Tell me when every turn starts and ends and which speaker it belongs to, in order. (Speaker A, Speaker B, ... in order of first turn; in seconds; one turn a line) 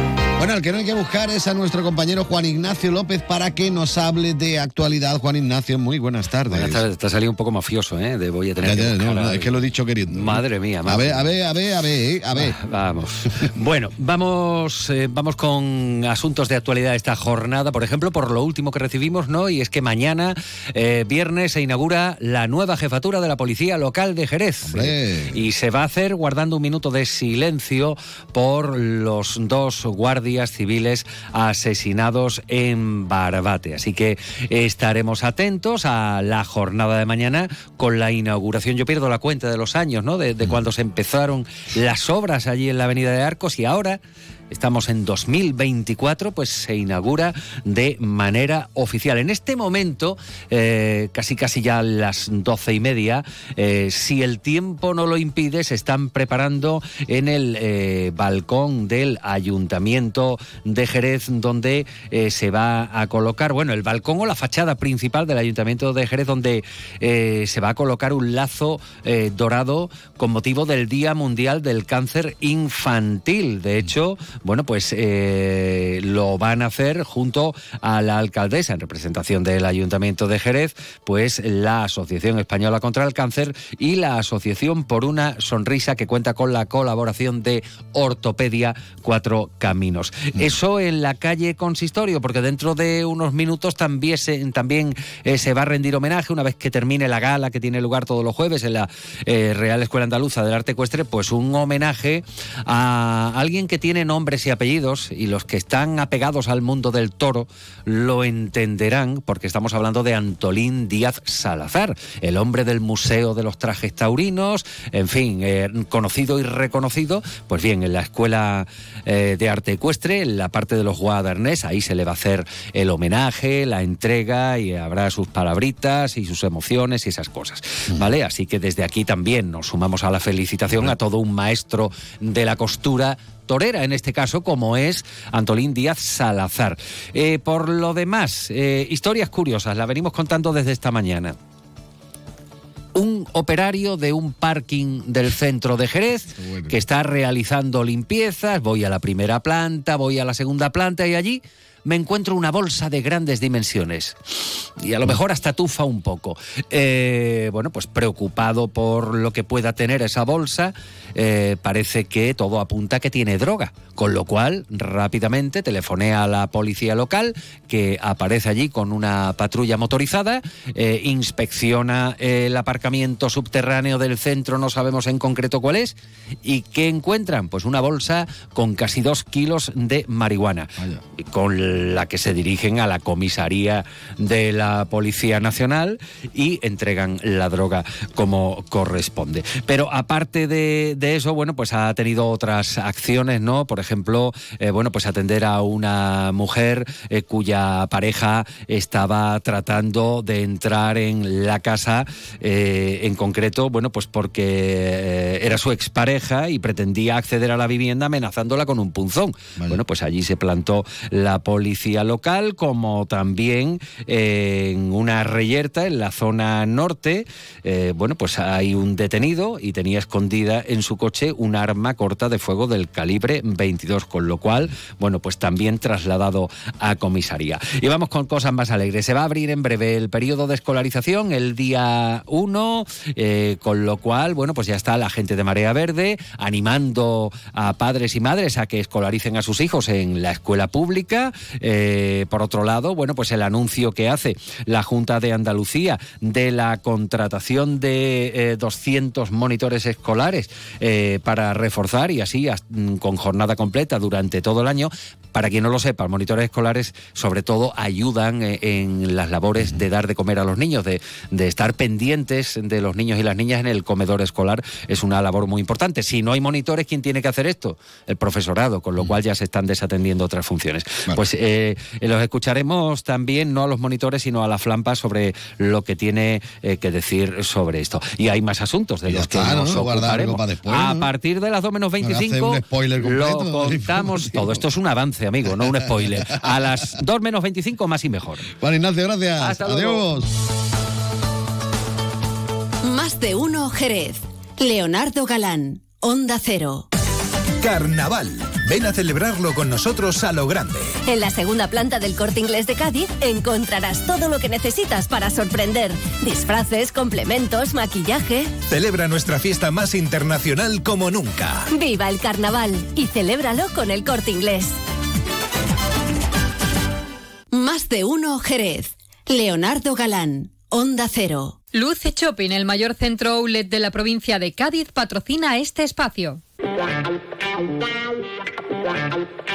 Speaker A: 0.4-6.8
Speaker B: 6.5-11.3
Speaker A: 8.6-12.6
Speaker B: 12.4-141.4
Speaker A: 24.6-25.3
Speaker B: 142.9-154.2
Speaker A: 146.4-146.7
Speaker B: 154.8-288.4
Speaker A: 279.1-281.1
Speaker A: 282.0-284.6
Speaker A: 288.6-290.3
Speaker B: 289.4-290.1
Speaker C: 292.8-296.9
Speaker D: 297.6-300.9
Speaker E: 301.1-308.5
Speaker D: 308.7-311.6
Speaker E: 311.7-314.8
Speaker C: 317.5-321.6
Speaker F: 321.7-326.4